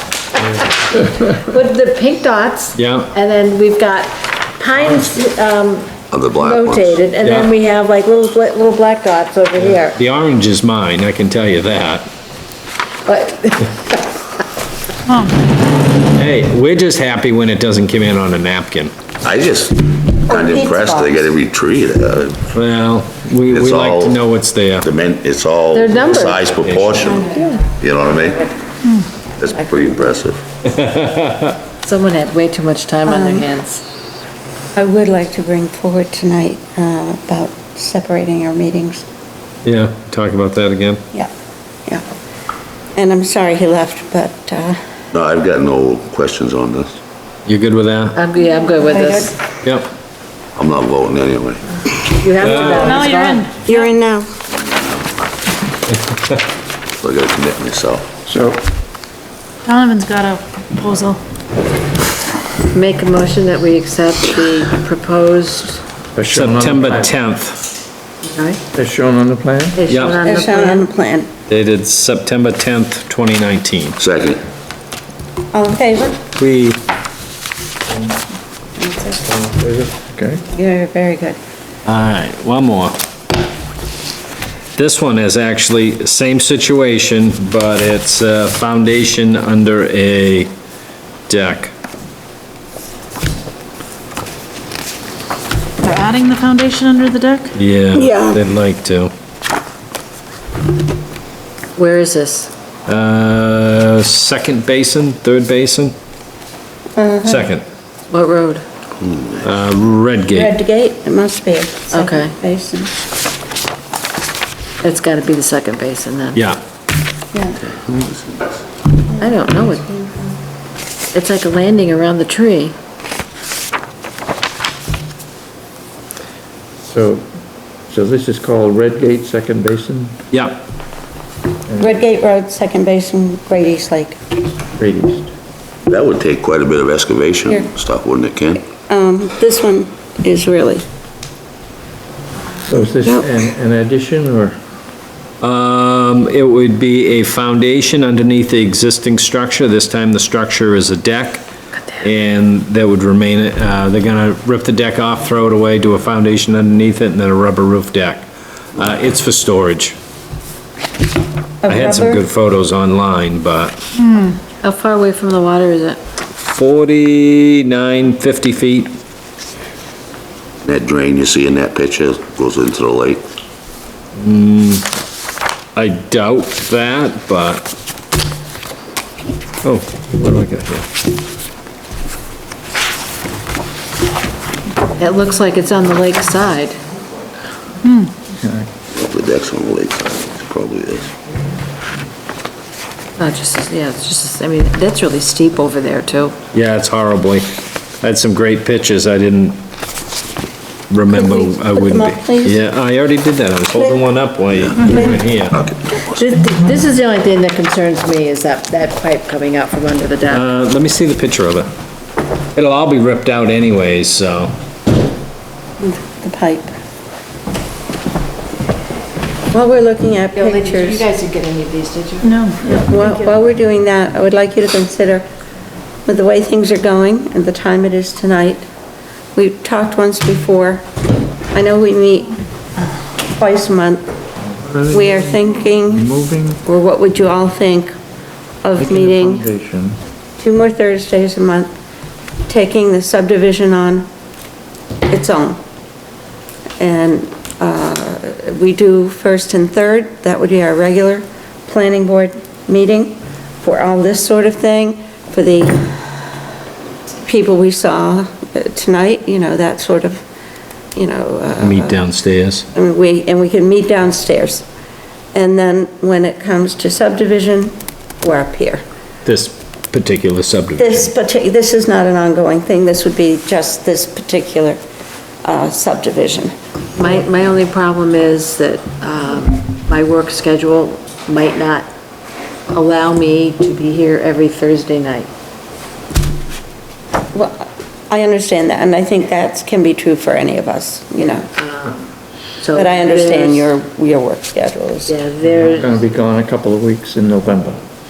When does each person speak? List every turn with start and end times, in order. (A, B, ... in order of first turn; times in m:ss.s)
0:00.4-0:00.7 A
0:00.9-0:10.0 B
0:02.8-0:03.1 A
0:06.1-0:07.0 C
0:07.2-0:07.5 A
0:09.9-0:12.1 A
0:13.1-0:14.0 B
0:15.1-0:15.4 D
0:16.1-0:18.9 A
0:19.2-0:22.4 C
0:20.3-0:21.3 E
0:22.5-0:24.9 A
0:23.5-0:24.2 C
0:24.8-0:27.3 C
0:25.7-0:27.6 B
0:26.6-0:27.1 A
0:27.8-0:28.5 C
0:29.4-0:30.4 C
0:30.7-0:31.6 A
0:31.8-0:33.8 B
0:33.0-0:33.5 E
0:34.8-0:39.0 E
0:39.6-0:41.0 A
0:43.0-0:44.8 E
0:45.1-0:47.0 C
0:47.5-0:48.2 A
0:48.1-0:49.3 B
0:48.4-0:49.4 E
0:49.6-0:49.9 A
0:50.6-0:51.7 C
0:52.2-0:53.5 B
0:52.4-0:52.9 A
0:52.7-0:53.9 D
0:53.6-0:54.3 E
0:54.7-0:55.0 C
0:57.0-0:58.2 C
0:58.3-0:58.6 F
0:59.7-1:01.2 D
1:02.6-1:05.8 B
1:06.2-1:07.2 F
1:06.3-1:07.6 A
1:08.2-1:08.6 B
1:08.7-1:09.8 F
1:09.8-1:10.9 B
1:09.9-1:10.2 A
1:10.2-1:11.3 E
1:11.5-1:14.0 A
1:14.0-1:14.4 C
1:15.5-1:16.2 E
1:16.4-1:16.8 A
1:18.8-1:19.4 E
1:19.5-1:20.4 F
1:20.5-1:21.4 E
1:21.9-1:23.0 A
1:24.8-1:30.5 A
1:31.3-1:31.7 A
1:35.8-1:37.5 D
1:37.6-1:39.1 A
1:37.9-1:38.4 E
1:41.8-1:42.5 B
1:42.9-1:46.0 A
1:47.0-1:47.5 E
1:47.2-1:47.6 A
1:48.1-1:48.6 B
1:49.0-1:49.5 C
1:49.4-1:50.6 A
1:50.3-1:52.9 E
1:51.9-1:52.3 B
1:54.8-1:56.4 B
1:56.3-1:56.6 A
1:57.3-1:57.6 E
1:57.6-1:58.6 C
1:59.1-2:00.4 E
1:59.2-1:59.8 B
2:01.1-2:02.8 B
2:06.8-2:07.3 F
2:07.9-2:10.2 F
2:10.3-2:10.6 A
2:11.7-2:12.0 F
2:11.8-2:14.2 E
2:14.8-2:15.3 F
2:15.9-2:18.6 C
2:18.9-2:20.8 E
2:22.7-2:24.6 F
2:25.4-2:31.4 A
2:32.0-2:40.0 A
2:41.6-2:42.2 E
2:41.7-2:43.8 A
2:44.0-2:44.3 D
2:44.6-2:46.0 B
2:46.4-2:48.9 A
2:50.6-2:53.2 C
2:54.2-2:54.9 A
2:55.8-2:57.7 A
2:59.6-3:00.9 A
3:05.0-3:06.8 B
3:07.8-3:08.1 D
3:08.3-3:08.7 F
3:08.9-3:11.1 C
3:13.2-3:16.4 B
3:16.5-3:19.6 A
3:20.9-3:25.6 A
3:21.1-3:22.6 E
3:25.5-3:26.2 C
3:26.0-3:30.4 B
3:30.3-3:31.7 A
3:32.6-3:34.5 A
3:35.8-3:36.7 E
3:39.5-3:41.0 E
3:40.4-3:42.4 B
3:42.2-3:43.2 D
3:42.6-3:45.3 E
3:46.1-3:48.6 E
3:49.4-3:50.9 E
3:51.5-3:52.4 E
3:53.2-3:54.0 E
3:54.6-3:56.6 F
3:54.9-3:56.1 E
3:56.6-3:58.0 E
3:58.6-3:59.5 E
3:58.8-4:00.0 F
4:00.4-4:01.7 E
4:02.5-4:04.1 E
4:05.1-4:05.6 E
4:06.8-4:16.2 E
4:17.2-4:20.2 E
4:21.0-4:22.1 E
4:21.6-4:22.7 A
4:22.7-4:24.7 E
4:25.3-4:28.8 E
4:29.2-4:31.1 A
4:30.8-4:34.8 E
4:35.4-4:36.5 E
4:37.0-4:41.9 B
4:42.7-4:45.3 B
4:47.3-4:51.5 E
4:51.6-4:52.0 B
4:52.6-4:53.7 B
4:52.7-4:55.1 E
4:55.1-4:56.1 B
4:55.4-4:57.8 F